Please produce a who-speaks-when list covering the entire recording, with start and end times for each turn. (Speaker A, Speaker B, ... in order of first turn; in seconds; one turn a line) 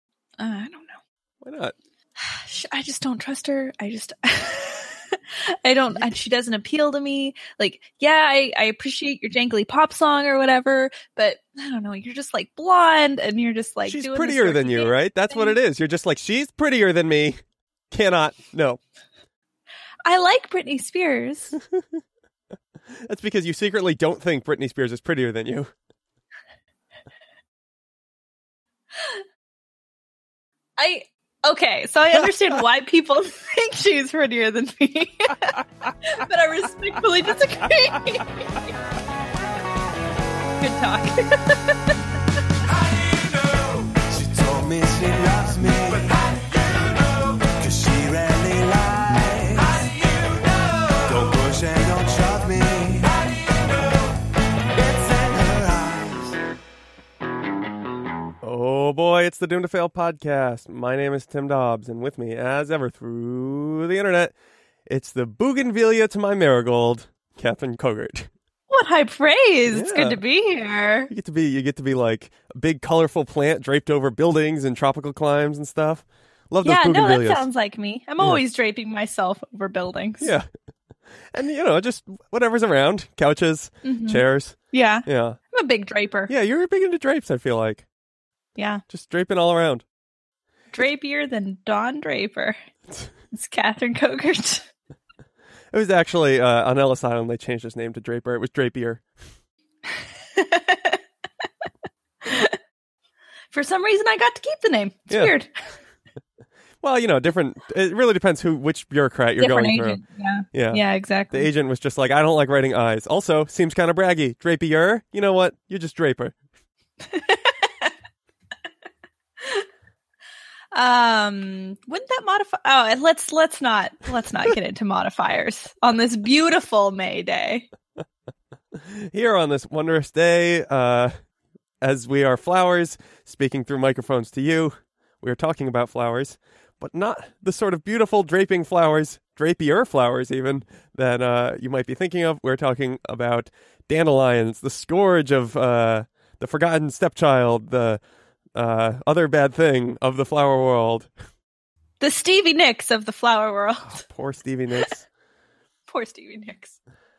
Speaker A: 0.4-1.0
Speaker B: 1.4-1.7
Speaker A: 2.2-15.6
Speaker B: 13.8-17.4
Speaker B: 17.9-18.8
Speaker A: 20.1-21.6
Speaker B: 23.1-25.7
Speaker A: 28.9-29.2
Speaker A: 30.8-38.6
Speaker A: 40.6-42.0
Speaker C: 42.8-54.1
Speaker C: 54.7-56.4
Speaker B: 58.4-64.3
Speaker B: 64.9-68.3
Speaker A: 68.7-71.1
Speaker B: 69.7-70.2
Speaker B: 71.1-77.5
Speaker A: 76.6-80.3
Speaker B: 80.2-80.5
Speaker B: 81.3-85.4
Speaker A: 83.8-86.3
Speaker B: 86.3-87.8
Speaker A: 88.5-88.8
Speaker B: 88.9-89.8
Speaker A: 90.7-92.6
Speaker A: 93.3-94.7
Speaker B: 95.7-99.0
Speaker A: 99.9-101.0
Speaker A: 102.2-102.6
Speaker A: 103.5-105.5
Speaker B: 105.1-105.3
Speaker B: 106.8-110.0
Speaker A: 109.4-111.5
Speaker B: 110.5-116.3
Speaker A: 117.1-117.9
Speaker A: 120.7-127.7
Speaker B: 128.7-131.1
Speaker B: 131.8-148.0
Speaker B: 148.5-151.1
Speaker A: 152.0-154.0
Speaker B: 153.8-155.0
Speaker A: 155.9-156.8